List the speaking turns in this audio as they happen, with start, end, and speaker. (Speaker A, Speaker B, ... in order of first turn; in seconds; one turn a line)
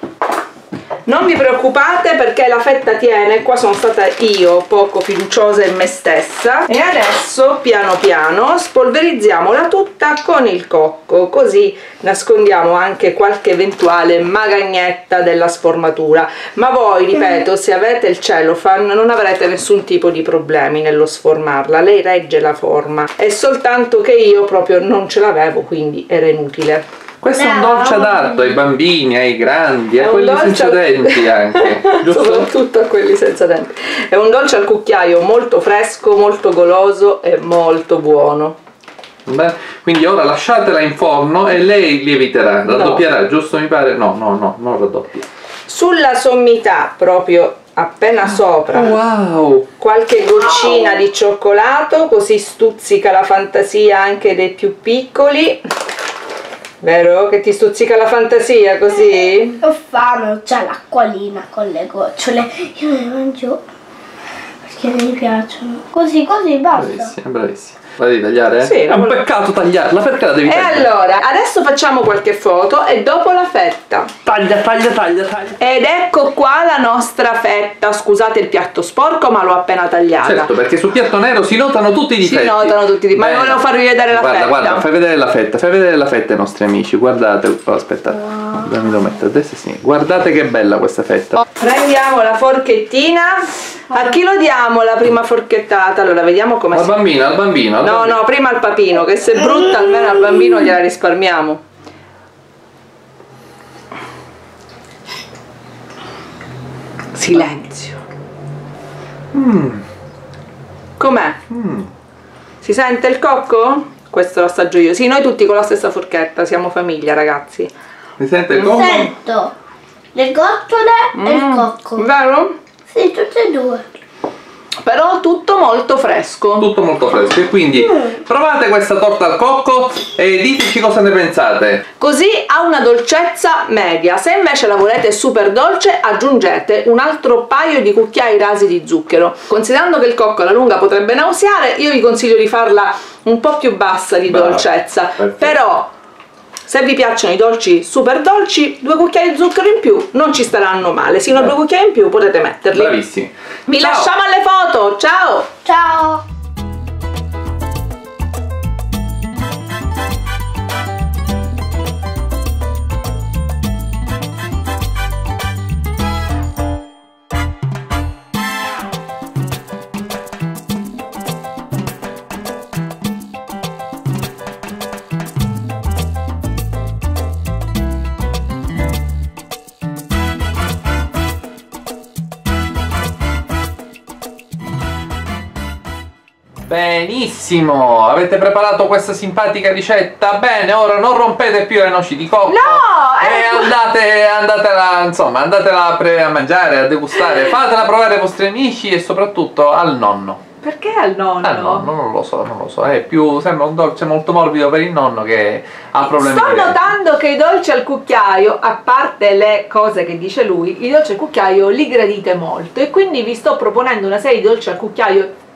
Speaker A: 1.1-26.8
Speaker B: 27.2-32.5
Speaker C: 27.7-28.1
Speaker A: 30.0-38.6
Speaker B: 39.3-45.2
Speaker A: 42.7-43.0
Speaker A: 45.7-49.0
Speaker B: 48.7-49.7
Speaker A: 49.8-55.6
Speaker A: 56.8-59.6
Speaker C: 59.6-63.6
Speaker C: 64.7-67.1
Speaker B: 66.7-70.9
Speaker A: 68.6-69.3
Speaker A: 70.5-74.1
Speaker B: 74.2-75.6
Speaker A: 75.6-80.5
Speaker B: 80.2-91.4
Speaker A: 82.2-84.9
Speaker A: 91.6-97.0
Speaker B: 96.7-98.2
Speaker A: 97.8-101.6
Speaker A: 107.2-108.0
Speaker B: 109.3-109.8
Speaker A: 111.0-111.4
Speaker B: 111.5-111.9
Speaker A: 112.6-117.7
Speaker B: 118.2-119.1
Speaker C: 118.5-119.5
Speaker C: 120.1-122.0
Speaker A: 121.1-122.5
Speaker C: 122.9-124.0
Speaker A: 124.8-126.7
Speaker B: 126.6-131.8
Speaker A: 132.0-145.9
Speaker B: 144.3-144.7
Speaker B: 145.2-145.6
Speaker A: 146.7-153.0
Speaker B: 152.7-154.1
Speaker A: 153.7-155.5
Speaker C: 155.7-156.2
Speaker B: 186.7-200.4
Speaker A: 192.5-193.7
Speaker A: 200.6-201.9
Speaker B: 201.4-206.9
Speaker A: 206.1-215.3